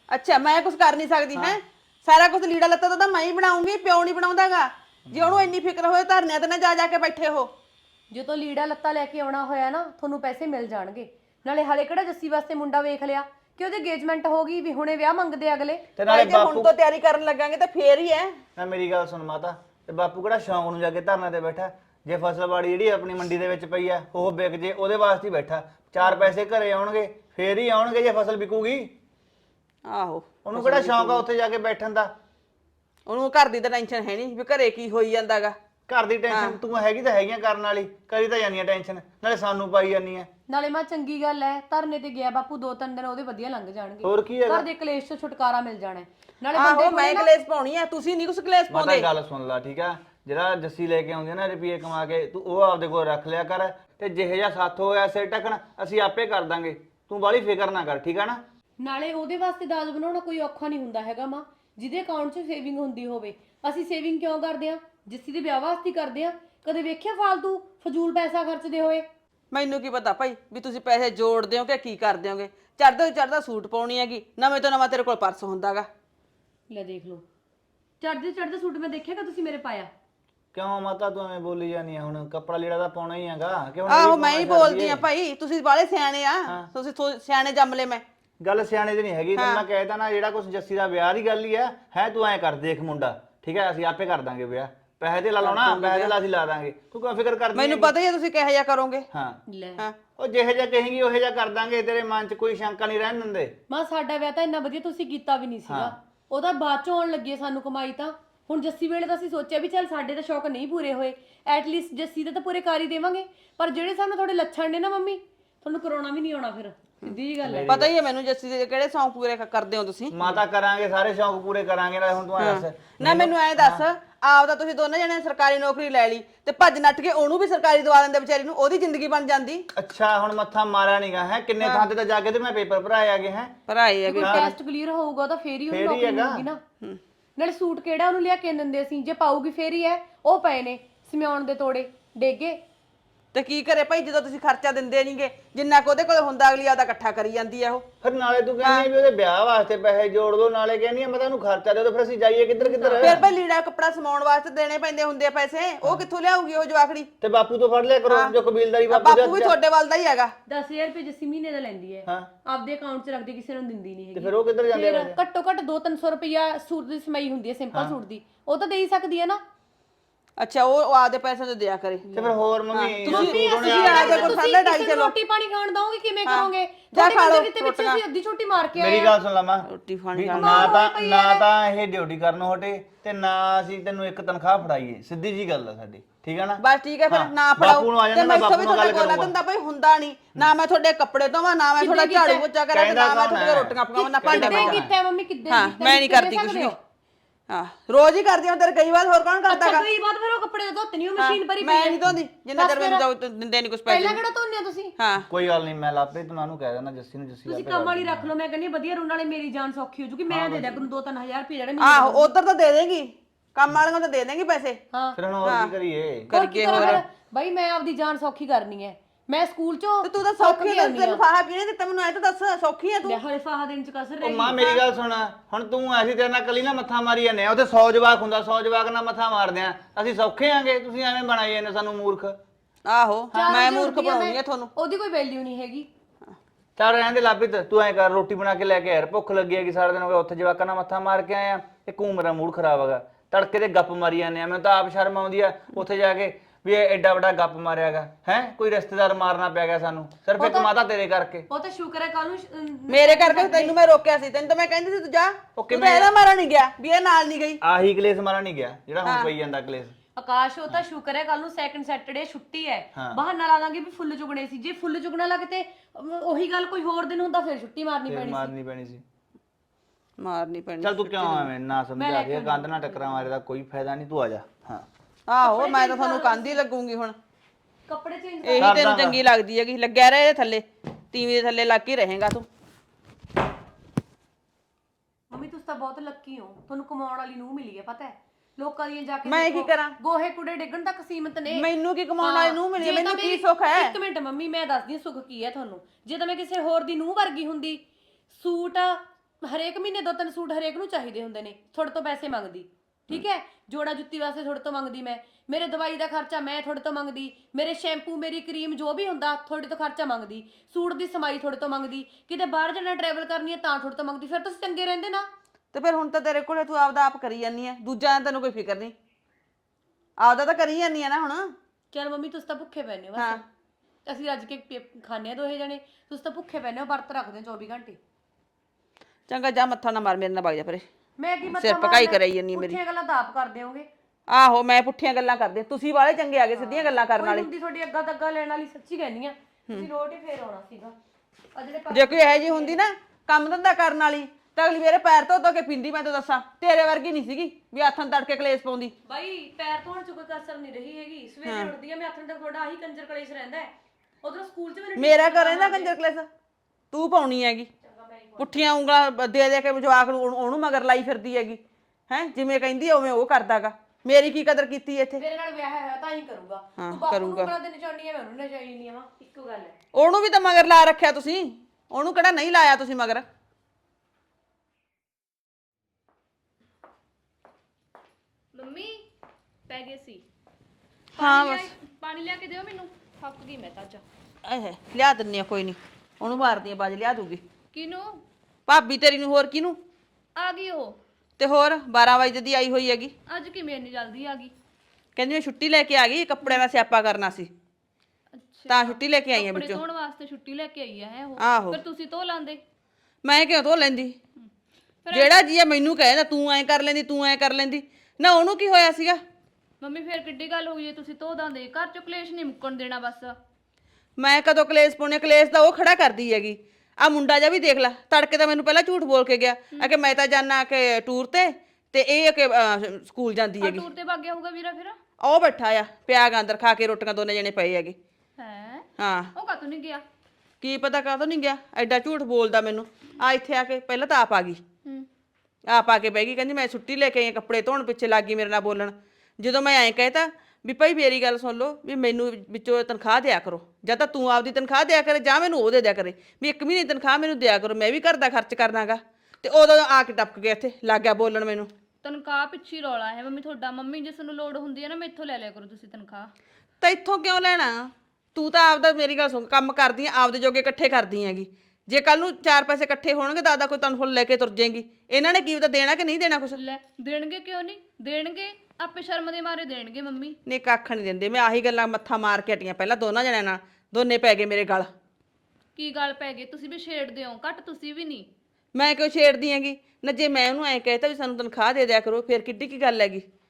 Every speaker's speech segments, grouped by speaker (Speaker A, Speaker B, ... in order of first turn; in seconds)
Speaker A: 0.1-7.5, 16.1-18.4, 29.9-31.2, 33.1-35.6, 36.3-36.6, 46.5-49.1, 69.5-75.9, 83.9-88.0, 89.4-89.6, 95.4-96.1, 97.5-99.1, 117.7-120.2, 122.4-129.7, 131.6-131.9, 133.7-134.5, 143.3-147.9, 148.6-148.9, 153.0-157.1, 158.1-158.3, 158.9-160.3, 170.4-172.1, 172.7-175.1, 176.3-178.0, 179.7-180.8, 186.6-194.9, 195.5-196.8, 197.5-199.9, 201.2-204.2, 205.0-205.3, 211.8-214.8, 215.4-215.7, 216.3-217.0, 220.0-223.2, 232.8-234.7, 252.9-257.6, 259.0-259.3, 270.2-271.5, 275.3-277.2, 278.4-282.5, 289.2-290.0, 291.5-293.9, 315.7-318.9, 320.2-321.6, 323.2-323.4, 329.3-330.9, 331.5-332.8, 334.3-337.5, 341.9-348.9, 351.4-351.7, 355.0-356.3, 356.9-357.7, 358.4-365.2, 366.8-367.5, 369.9-373.2, 381.2-381.7, 384.4-387.4, 388.7-389.8, 391.4-393.1, 395.2-397.5, 398.7-399.8, 401.4-401.8, 403.2-404.2, 405.1-409.2, 414.2-423.9, 425.2-428.0, 429.0-429.3, 430.6-434.6, 435.7-451.7, 456.8-466.6, 470.5-474.9, 478.7-483.3
Speaker B: 5.1-5.5, 16.0-16.7, 18.6-28.9, 30.4-32.1, 35.9-40.3, 44.0-44.7, 48.7-58.4, 80.5-85.0, 88.4-97.9, 99.1-99.4, 100.2-103.6, 105.7-105.9, 117.4-117.9, 120.1-123.8, 129.7-133.6, 134.2-134.5, 135.7-136.5, 148.0-153.2, 157.2-159.6, 162.1-162.3, 164.2-165.2, 172.2-174.4, 178.8-189.3, 192.7-194.9, 205.3-208.3, 210.3-210.8, 215.2-217.0, 224.2-232.4, 236.8-251.5, 255.6-256.1, 257.6-259.9, 262.9-263.2, 268.1-269.0, 270.8-274.9, 278.6-279.2
Speaker C: 8.1-15.9, 40.5-47.3, 58.8-69.1, 76.7-77.3, 78.0-79.9, 99.5-99.8, 103.7-117.8, 134.1-136.6, 137.4-142.6, 152.6-153.2, 160.5-169.4, 172.1-172.4, 173.0-179.2, 180.4-181.5, 191.8-192.5, 194.0-196.8, 199.5-202.0, 202.6-203.1, 203.9-204.9, 207.5-212.3, 214.9-215.2, 216.3-221.2, 223.0-224.8, 233.3-235.9, 250.4-250.7, 251.5-253.8, 260.1-268.5, 272.0-273.3, 275.4-276.6, 277.9-279.0, 285.3-291.7, 292.2-297.8, 298.3-315.3, 321.9-323.4, 324.1-328.0, 331.2-333.9, 336.6-340.9, 341.6-342.8, 349.1-353.7, 354.2-356.0, 357.8-358.6, 365.2-369.8
Speaker D: 378.5-379.0, 379.7-380.2, 381.2-384.0, 387.7-388.2, 390.4-391.0, 393.3-394.5, 398.3-402.6, 405.1-405.4, 409.8-413.4, 423.6-425.0, 428.4-430.0, 452.0-456.3, 466.6-470.4, 475.8-478.3